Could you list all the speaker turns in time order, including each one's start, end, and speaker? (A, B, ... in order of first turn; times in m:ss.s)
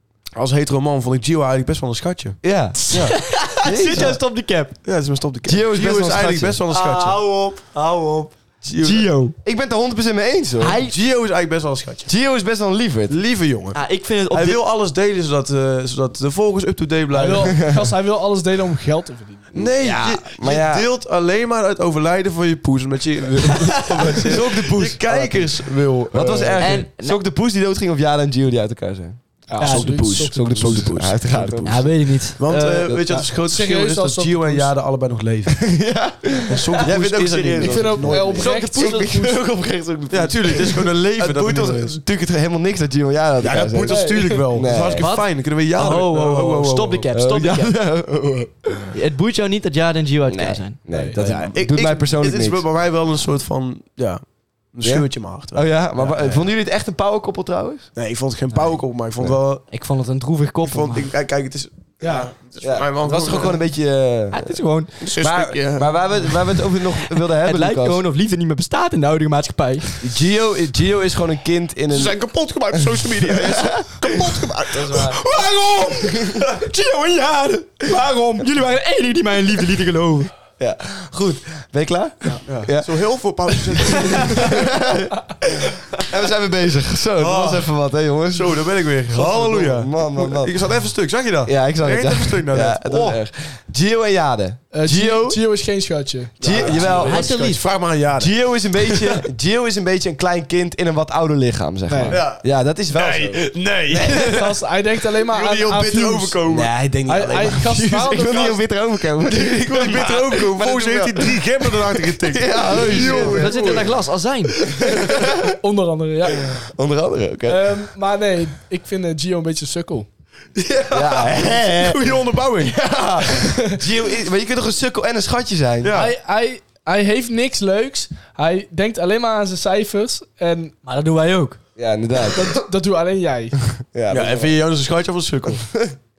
0:00.3-0:03.2 A
0:02.4-0:02.8 B
0:02.8-0:04.8 C
0:03.6-0:04.2 B
0:03.8-0:04.2 A
0:04.8-0:07.3 A
0:05.4-0:06.6 B
0:06.7-0:09.3 C
0:08.6-0:09.1 A
0:09.4-0:10.8 B
0:10.6-0:11.0 C
0:10.8-0:12.1 A
0:12.0-0:13.2 B
0:13.1-0:17.6 A
0:13.7-0:14.6 C
0:17.1-0:19.5 D
0:17.5-0:17.9 B
0:19.5-0:26.8 A
0:19.5-0:20.8 B
0:24.2-0:29.2 B
0:26.6-0:27.2 C
0:29.5-0:30.9 D
0:29.6-0:35.6 A
0:29.6-0:30.0 C
0:30.1-0:31.9 B
0:31.6-0:33.0 C
0:32.8-0:33.2 B
0:33.2-0:34.7 D
0:35.6-0:45.1 B
0:36.5-0:38.5 A
0:37.6-0:39.3 D
0:38.4-0:39.3 C
0:40.1-0:42.0 A
0:43.4-0:47.1 A
0:43.8-0:44.4 D
0:44.9-0:47.8 C
0:47.1-0:48.9 B
0:48.9-0:50.9 C
0:50.3-0:52.6 B
0:50.9-0:51.2 D
0:51.1-0:56.4 A
0:54.8-0:57.9 B
0:57.9-0:59.6 A
0:58.5-0:58.8 C
0:59.7-1:01.1 C
1:00.6-1:03.6 A
1:02.0-1:02.3 D
1:02.6-1:04.6 B
1:04.3-1:05.1 C
1:05.0-1:06.3 A
1:05.2-1:08.0 B
1:07.1-1:10.0 C
1:10.0-1:12.2 B
1:11.9-1:16.2 A
1:12.7-1:15.2 B
1:15.3-1:20.3 C
1:16.0-1:16.5 B
1:20.6-1:30.5 B
1:22.4-1:24.7 A
1:27.2-1:27.7 A
1:28.3-1:33.2 A
1:31.4-1:35.4 B
1:34.7-1:37.2 D
1:36.4-1:37.3 B
1:36.4-1:39.2 A
1:36.7-1:37.6 C
1:38.1-1:44.1 B
1:41.9-1:42.2 D
1:42.1-1:44.6 A
1:44.1-1:46.4 D
1:45.2-1:47.7 A
1:46.4-1:53.9 B
1:47.0-1:48.6 D
1:49.2-1:54.0 A
1:52.7-1:54.6 C
1:54.6-1:55.5 B
1:54.9-1:55.1 A
1:55.6-1:56.5 D
1:56.4-1:57.8 B
1:57.5-2:00.1 D
2:00.6-2:02.9 A
2:00.9-2:06.0 B
2:05.8-2:06.1 A
2:05.9-2:10.7 D
2:10.8-2:11.6 C
2:11.8-2:12.6 B
2:12.2-2:13.6 D
2:13.7-2:14.6 B
2:14.1-2:15.6 A